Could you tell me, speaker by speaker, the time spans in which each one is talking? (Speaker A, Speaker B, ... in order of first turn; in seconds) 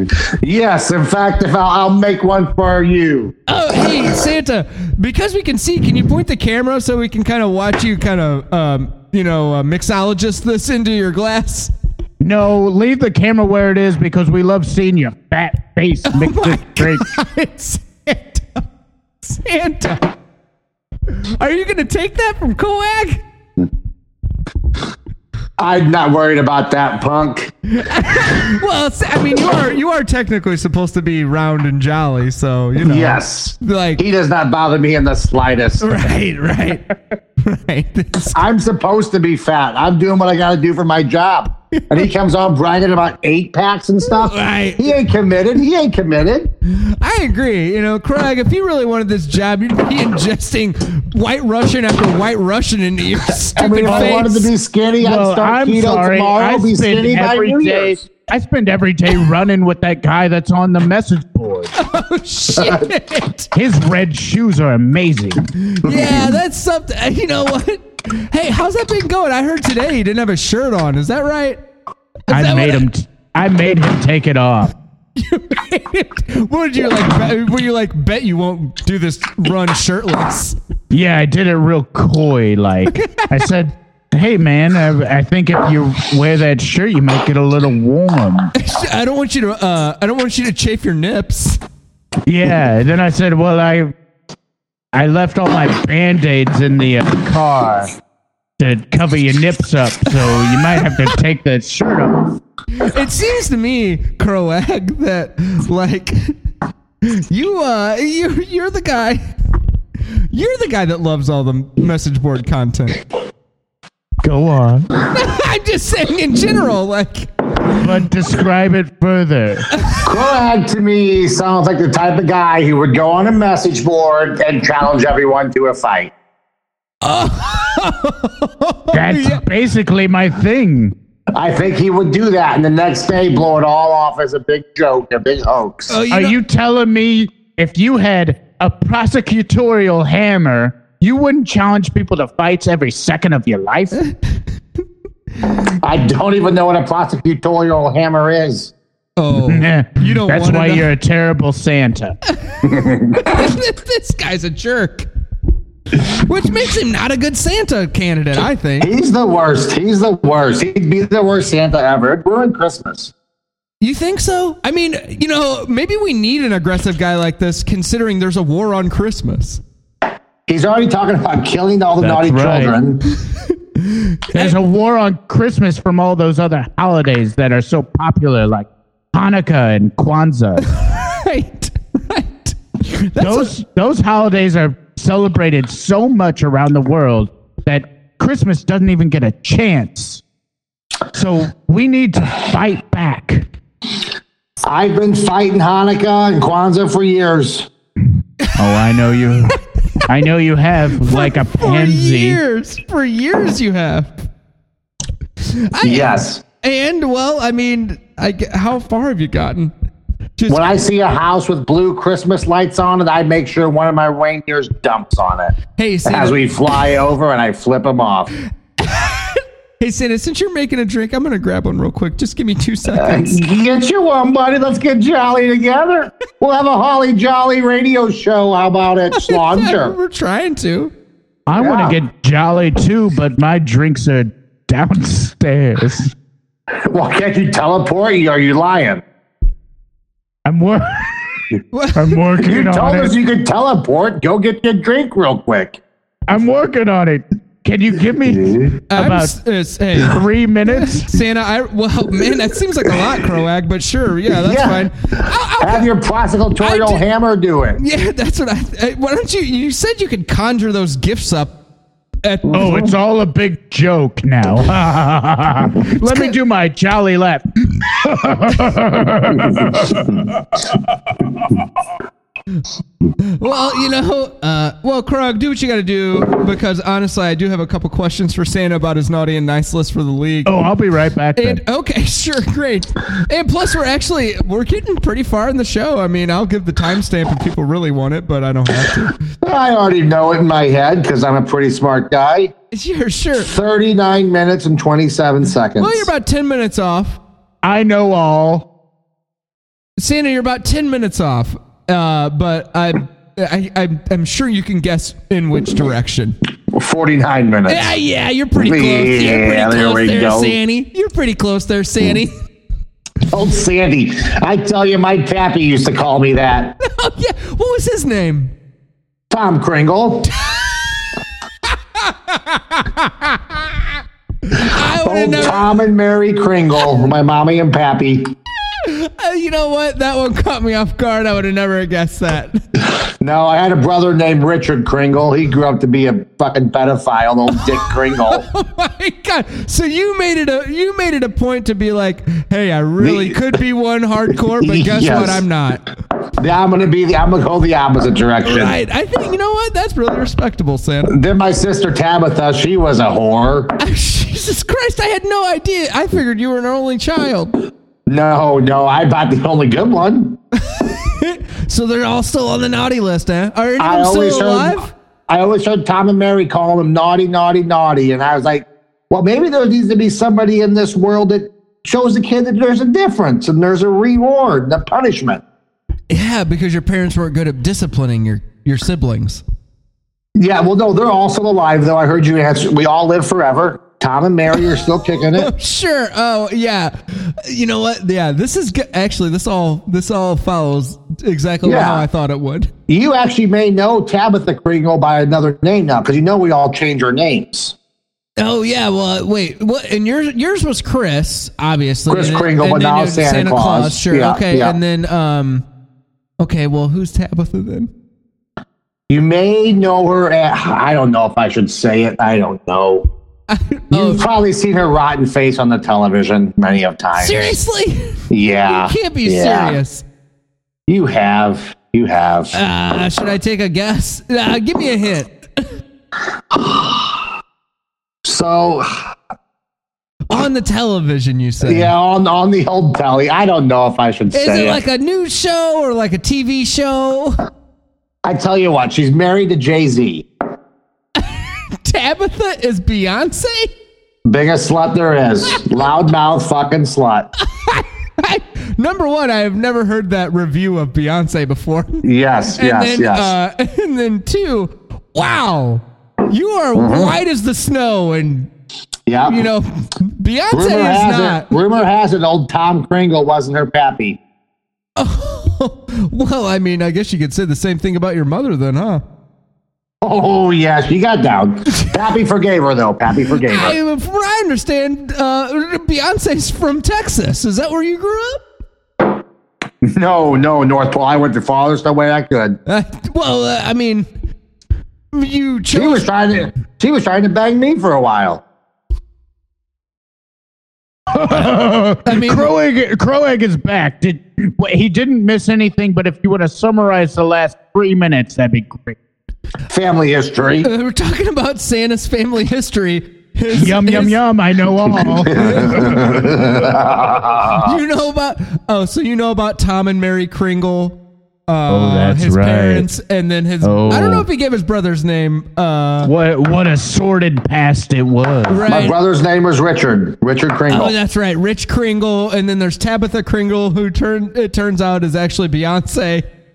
Speaker A: 0.2-3.3, 25.6-27.5, 32.8-35.9, 38.3-46.5, 53.5-58.0, 120.0-126.1, 131.3-136.0, 145.8-148.7, 152.7-153.0, 158.8-163.1, 170.5-173.1, 194.7-197.7, 205.8-206.4, 210.5-218.3, 223.0-229.9, 231.6-232.0, 236.8-239.0, 242.4-245.8, 248.3-248.7, 254.3-257.8, 289.4-292.5, 293.4-296.1, 306.7-307.9, 308.6-310.6, 313.3-316.7, 319.3-320.3, 324.9-328.3, 333.2-338.5, 343.0-343.4, 344.6-345.4, 346.4-348.7, 351.1-353.7, 358.1-360.4, 363.8-375.4, 380.4-385.5, 391.6-392.1, 392.9-397.7, 402.1-404.8, 409.1-413.1, 413.9-417.5, 418.3-419.8, 420.9-422.6, 426.5-427.1, 428.2-428.9, 431.6-434.8, 438.2-440.2, 444.2-447.3, 452.0-453.3, 456.7-457.2, 459.1-459.4, 460.5-464.2, 470.0-473.8, 479.8-482.6, 485.7-488.4, 499.7-500.7, 505.4-507.8, 518.6-520.9
Speaker B: 3.5-11.7, 16.1-18.6, 19.2-20.1, 21.4-23.2, 27.7-34.0, 35.8-36.9, 37.4-38.4, 41.7-42.0, 44.0-44.9, 46.6-54.5, 61.7-63.5, 65.6-71.6, 72.3-72.9, 75.2-80.6, 82.9-83.5, 88.5-91.6, 102.8-106.4, 107.0-109.3, 110.3-113.0, 115.1-117.8, 119.7-120.0, 127.0-129.4, 135.9-136.4, 149.2-150.9, 152.3-155.1, 155.9-158.9, 163.8-169.6, 173.8-174.6, 180.6-183.5, 201.0-204.2, 205.5-209.7, 210.4-210.7, 215.8-216.7, 218.8-223.4, 229.1-230.9, 241.7-242.2, 248.9-255.9, 256.6-257.0, 257.8-261.6, 262.2-262.8, 266.1-266.3, 273.2-280.7, 281.4-289.1, 292.7-293.5, 295.8-297.2, 300.0-306.4, 307.7-312.3, 316.8-318.5, 320.3-321.1, 321.6-323.9, 324.4-325.7, 328.8-332.6, 337.5-345.8, 348.4-351.1, 353.8-357.6, 360.7-364.9, 376.1-379.4, 385.3-392.7, 398.4-405.6, 406.4-407.9, 413.5-414.2, 417.1-420.0, 422.5-425.7, 430.3-431.9, 434.3-437.4, 441.2-443.7, 447.5-452.0, 452.6-458.5, 459.2-461.5, 465.0-469.0, 473.3-478.4, 482.6-484.1, 485.1-486.1, 492.0-492.5, 500.6-504.2, 505.2-506.0, 507.6-516.1, 518.5-519.0, 520.7-526.3
Speaker C: 12.2-17.1, 53.9-54.2, 55.0-61.7, 63.5-65.4, 72.3-74.7, 80.9-88.5, 92.2-93.9, 94.9-97.9, 98.6-102.3, 114.2-114.9, 117.8-119.7, 128.9-130.9, 136.1-144.0, 149.4-152.2, 172.0-172.8, 174.3-180.6, 183.2-190.2, 191.1-193.5, 198.6-202.4, 231.5-236.1, 240.4-241.2, 241.9-243.1, 246.3-249.3, 250.0-251.1, 262.5-270.1, 280.4-281.6, 297.6-298.6, 491.1-499.0, 503.5-506.3, 511.7-512.9, 513.6-514.2, 516.0-518.6